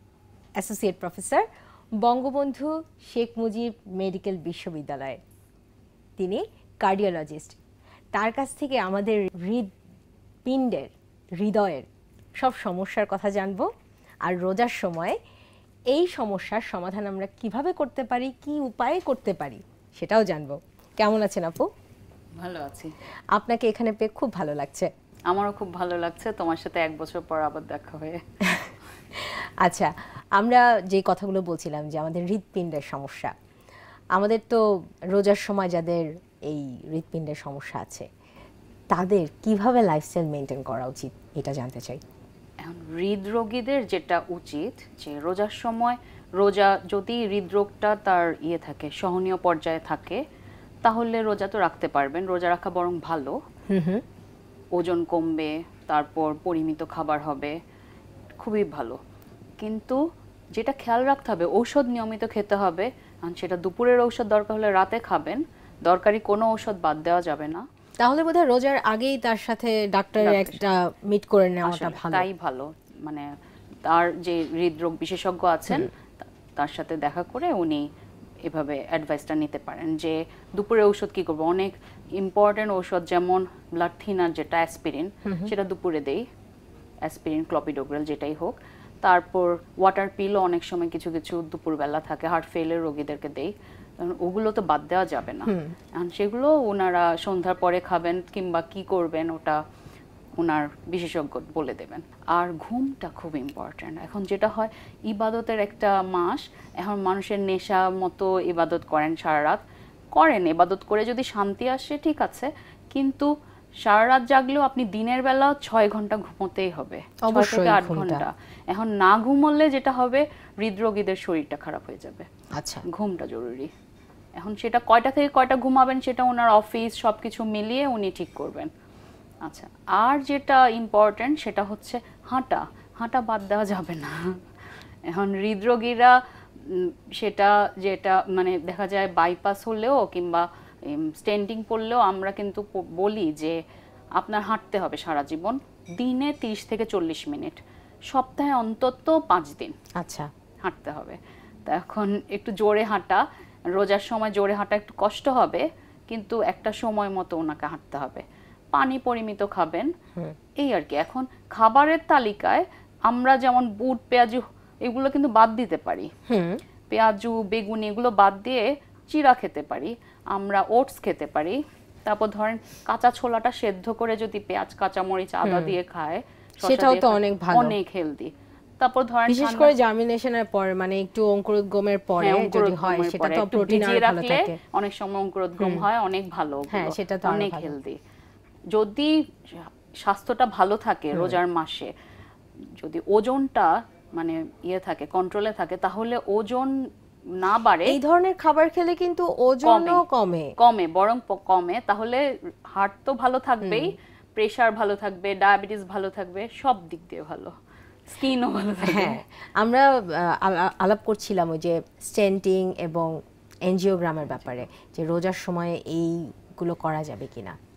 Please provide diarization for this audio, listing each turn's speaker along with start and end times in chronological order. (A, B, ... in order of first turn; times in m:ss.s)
0:00.6-0:01.5 A
0:02.0-0:05.2 A
0:06.2-0:07.6 A
0:08.1-0:09.7 A
0:10.5-0:11.9 A
0:12.4-0:13.7 A
0:14.3-0:15.2 A
0:15.9-0:21.7 A
0:22.4-0:22.9 B
0:23.4-0:24.9 A
0:25.3-0:28.2 B
0:28.5-0:33.3 A
0:34.2-0:34.6 A
0:35.1-0:38.1 A
0:38.9-0:42.0 A
0:42.6-0:50.2 B
0:50.8-0:53.4 B
0:53.7-0:54.0 A
0:54.8-0:57.6 B
0:58.4-0:59.0 B
0:59.6-1:00.0 B
1:00.6-1:07.6 B
1:08.0-1:12.3 A
1:10.2-1:10.6 B
1:11.6-1:13.3 B
1:13.9-1:17.8 B
1:18.5-1:26.2 B
1:25.3-1:25.5 A
1:27.1-1:39.6 B
1:35.5-1:35.7 A
1:40.4-1:49.6 B
1:50.2-1:53.3 B
1:53.8-2:02.3 B
1:57.3-1:58.2 A
2:02.6-2:02.8 A
2:02.9-2:03.7 B
2:04.4-2:08.7 B
2:09.5-2:14.3 B
2:15.1-2:23.6 B
2:24.2-2:27.6 B
2:28.1-2:29.8 B
2:30.0-2:30.3 A
2:30.6-2:33.2 B
2:33.8-2:39.9 B
2:40.6-2:46.1 B
2:46.3-2:46.6 A
2:46.9-2:59.7 B
2:55.4-2:55.8 A
2:56.6-2:57.8 A
2:59.3-3:04.6 A
3:02.2-3:08.0 B
3:05.6-3:05.9 A
3:06.7-3:07.8 A
3:08.7-3:11.9 B
3:11.1-3:11.4 A
3:12.8-3:16.7 B
3:17.4-3:18.0 B
3:17.9-3:20.5 A
3:19.6-3:20.0 B
3:20.6-3:22.2 B
3:22.7-3:27.5 B
3:23.6-3:23.9 A
3:28.1-3:29.2 B
3:28.8-3:33.1 A
3:33.7-3:37.6 A
3:34.2-3:34.6 B